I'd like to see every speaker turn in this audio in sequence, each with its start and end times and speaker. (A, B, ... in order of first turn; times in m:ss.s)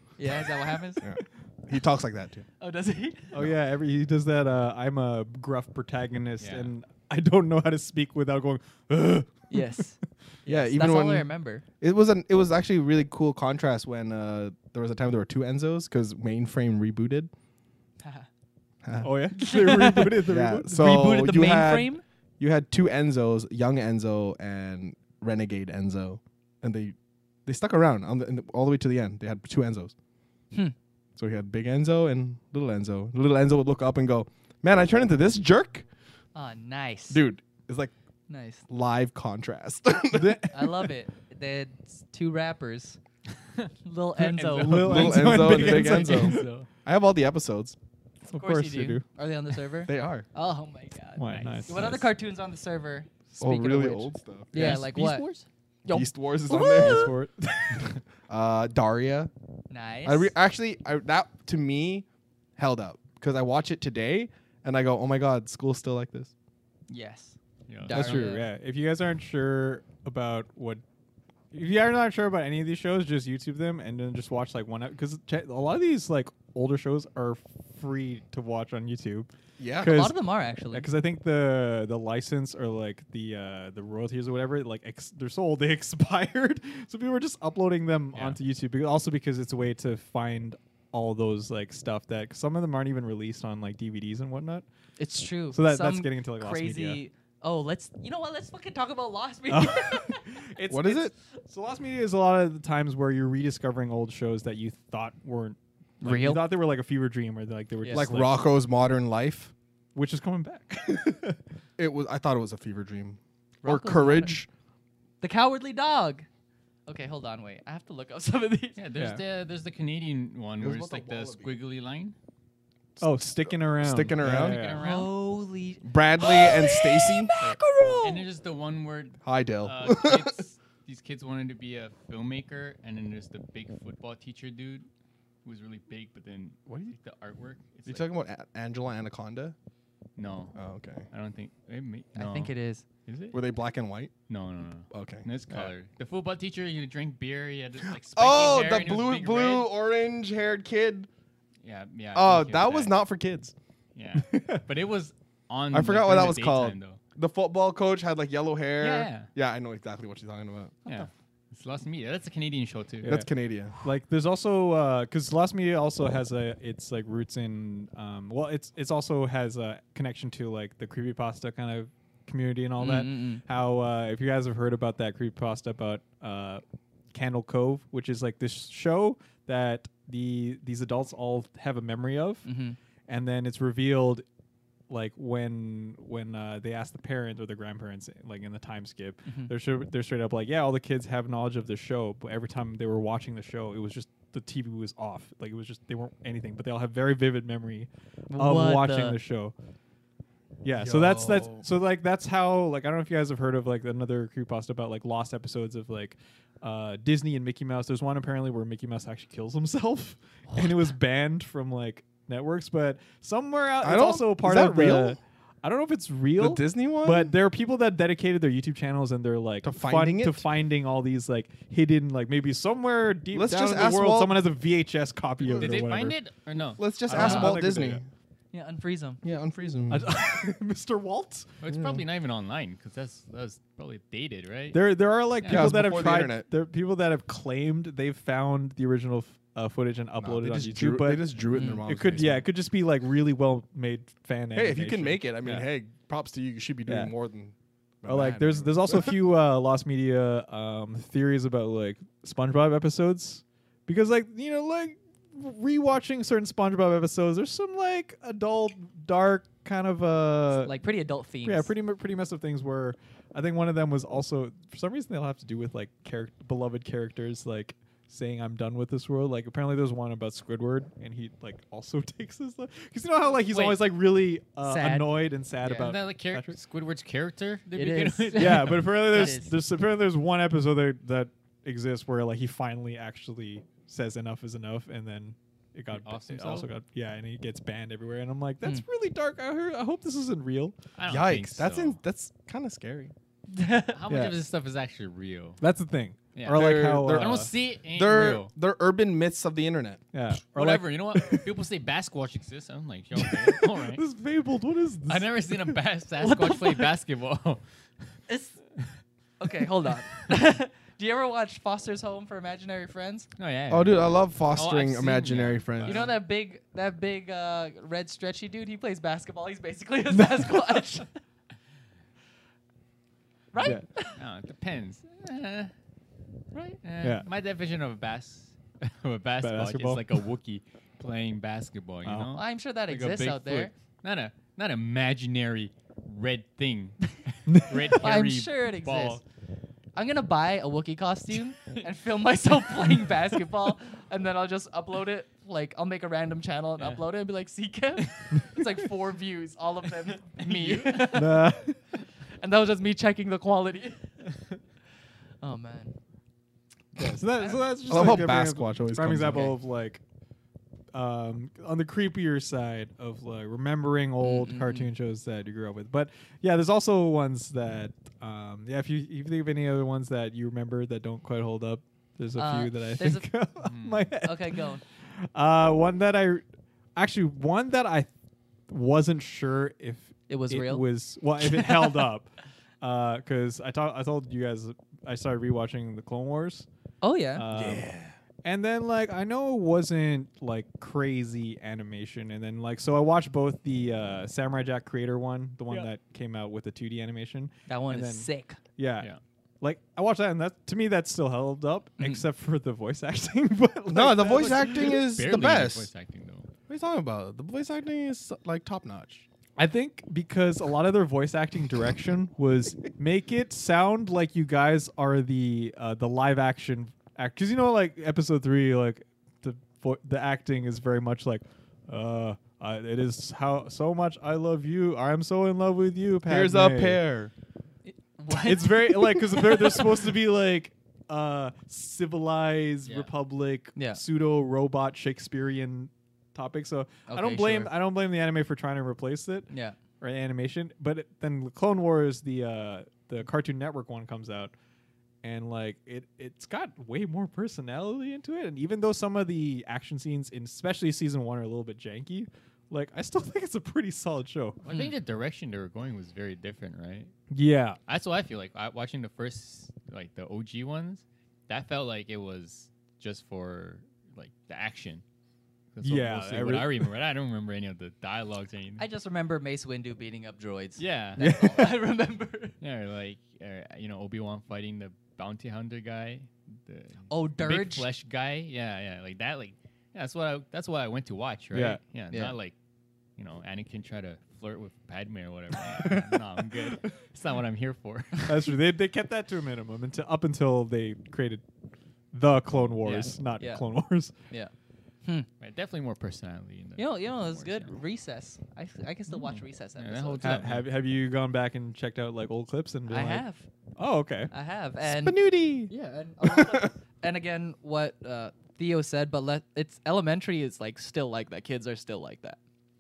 0:00.2-0:01.0 A
0:01.0-0:02.5 B
0:02.6-0:03.4 A
0:03.3-0:09.9 C
0:06.4-0:06.7 D
0:09.5-0:11.6 A
0:10.5-0:17.3 B
0:18.0-0:18.3 A
0:18.8-0:19.1 B
0:19.0-0:21.0 C
0:19.4-0:22.0 A
0:20.2-0:29.9 B
0:31.2-0:35.9 B
0:36.4-0:37.2 A
0:37.1-0:37.9 B
0:38.3-0:38.6 A
0:38.7-0:40.5 B
0:40.1-0:40.8 C
0:40.5-0:43.0 A
0:43.8-0:45.0 A
0:44.2-0:46.7 D
0:44.6-0:46.5 C
0:44.7-0:47.8 B
0:48.2-0:49.0 C
0:48.3-0:55.3 A
0:49.9-0:50.3 B
0:51.2-0:52.1 C
0:51.3-0:52.0 D
0:53.4-0:54.8 B
0:54.5-0:55.2 C
0:54.6-0:55.4 D
0:55.9-0:57.1 A
0:55.9-0:57.1 B
0:56.6-0:58.0 C
0:58.3-0:59.3 B
0:59.7-1:00.3 A
1:00.0-1:02.1 B
1:02.6-1:06.3 B
1:06.9-1:08.5 A
1:07.7-1:08.3 D
1:07.9-1:10.8 C
1:11.5-1:20.2 C
1:19.6-1:20.1 B
1:19.8-1:20.9 A
1:20.7-1:34.6 C
1:35.0-1:40.2 A
1:35.5-1:37.0 C
1:39.5-1:48.5 C
1:40.7-1:41.1 B
1:46.0-1:46.4 A
1:47.9-1:49.5 B
1:50.0-1:51.4 C
1:51.8-1:54.5 B
1:53.6-1:54.4 A
1:55.2-1:56.3 A
1:56.9-1:58.8 A
1:58.8-2:02.2 D
1:59.0-1:59.2 C
2:00.6-2:01.6 B
2:03.0-2:04.8 C
2:03.7-2:04.6 B
2:04.2-2:05.1 D
2:04.8-2:08.3 A
2:05.8-2:07.3 B
2:08.0-2:14.9 D
2:09.2-2:10.4 B
2:15.4-2:18.1 D
2:16.7-2:17.0 B
2:17.9-2:19.6 B
2:20.2-2:20.6 D
2:20.6-2:21.1 B
2:21.1-2:22.5 D
2:22.2-2:22.8 A
2:23.1-2:23.4 D
2:23.3-2:24.1 B
2:24.3-2:29.7 D
2:24.9-2:25.7 B
2:27.9-2:31.1 B
2:31.6-2:33.0 D
2:32.1-2:33.5 B
2:34.0-2:37.0 D
2:34.2-2:34.6 C
2:35.7-2:40.9 B
2:38.8-2:39.3 D
2:40.9-2:43.2 D
2:43.0-2:43.8 B
2:43.8-2:56.6 C
2:52.8-2:53.4 A
2:57.1-3:02.5 C
3:02.5-3:02.8 A
3:03.1-3:04.2 C
3:04.9-3:19.5 C
3:09.3-3:09.5 A
3:18.3-3:19.2 A
3:20.6-3:46.2 C
3:20.8-3:21.7 B
3:33.8-3:35.2 B
3:36.4-3:37.3 B
3:39.6-3:40.4 B
3:43.3-3:44.4 B
3:45.4-3:45.8 B
3:45.5-3:46.9 D
3:46.8-3:48.1 B
3:47.1-3:48.0 C
3:47.1-3:47.6 A
3:48.5-3:49.2 A
3:49.2-3:50.1 B
3:49.9-3:51.5 C
3:51.6-3:54.8 D
3:51.7-3:52.0 B
3:54.7-4:05.7 C
3:55.4-3:55.8 D
3:55.5-3:56.5 B
4:00.2-4:02.4 B
4:01.5-4:01.8 A
4:04.6-4:09.2 B
4:06.9-4:07.1 C
4:08.1-4:20.7 C
4:20.6-4:21.7 A
4:21.4-4:36.6 C
4:33.5-4:33.8 D
4:34.6-4:35.1 A
4:35.6-4:39.4 D
4:37.8-4:39.5 A
4:38.3-4:50.8 C
4:45.9-4:46.7 D
4:51.0-4:52.0 D
4:51.1-4:53.1 B
4:53.5-4:54.0 A
4:53.9-4:55.6 D
4:54.1-4:54.4 C
4:55.6-4:57.5 C
4:56.3-4:58.5 D
4:56.5-5:00.0 B
5:00.1-5:01.5 C
5:00.5-5:04.0 D
5:03.2-5:05.8 C
5:05.1-5:07.6 D
5:06.2-5:06.9 A
5:08.3-5:08.6 A
5:09.4-5:13.3 A
5:13.4-5:16.1 D
5:13.7-5:16.1 B
5:15.8-5:21.1 A
5:20.1-5:20.9 C
5:23.5-5:24.2 A
5:23.6-5:23.9 C
5:24.1-5:25.7 D
5:26.5-5:26.8 A
5:26.8-5:39.2 D
5:27.0-5:27.3 C
5:29.4-5:30.2 C
5:32.0-5:32.3 C
5:32.4-5:33.7 A
5:37.5-5:38.0 C
5:37.9-5:39.2 A
5:40.0-5:51.5 A
5:46.8-5:47.0 D
5:50.4-5:51.2 D
5:51.0-5:51.8 C
5:52.4-5:54.0 A
5:55.4-5:56.0 A
5:57.0-6:00.0 C
5:57.9-5:59.5 B
5:59.3-5:59.6 A
6:00.9-6:16.4 C
6:04.2-6:04.9 A
6:12.4-6:13.3 A
6:13.6-6:14.1 D
6:14.2-6:14.8 A
6:17.0-6:18.1 C
6:18.7-6:22.3 C
6:20.3-6:20.8 A
6:21.4-6:22.1 A
6:22.8-6:26.7 C
6:27.0-6:27.5 A
6:27.4-6:27.9 C
6:27.5-6:28.2 B
6:28.4-6:39.1 C
6:37.7-6:38.6 A
6:39.6-6:45.1 C
6:42.0-6:42.2 A
6:43.9-6:45.9 B
6:44.6-6:46.5 D
6:46.7-6:49.3 B
6:49.6-7:07.0 C
7:06.3-7:07.3 B
7:07.9-7:10.1 A
7:08.3-7:19.5 C
7:13.8-7:14.0 A
7:17.1-7:17.7 A
7:19.5-7:19.8 A
7:20.0-7:24.5 C
7:25.2-7:34.7 C
7:34.6-7:37.1 D
7:37.3-7:37.8 C
7:37.9-7:45.0 D
7:45.7-7:48.8 D
7:45.8-7:46.9 C
7:48.8-7:52.6 A
7:50.8-7:51.6 D
7:51.2-7:51.7 C
7:52.6-8:02.6 D
7:57.1-7:57.9 A
8:01.5-8:01.8 C
8:02.1-8:02.4 A
8:03.2-8:08.5 D
8:05.8-8:06.2 C
8:08.3-8:11.4 C
8:12.1-8:14.2 C
8:12.8-8:13.1 D
8:13.4-8:13.7 A
8:15.4-8:17.8 D
8:16.8-8:20.4 A
8:19.1-8:20.6 D
8:20.2-8:23.2 C
8:22.9-8:23.5 A
8:23.8-8:24.3 C
8:24.3-8:32.4 A
8:24.8-8:26.7 B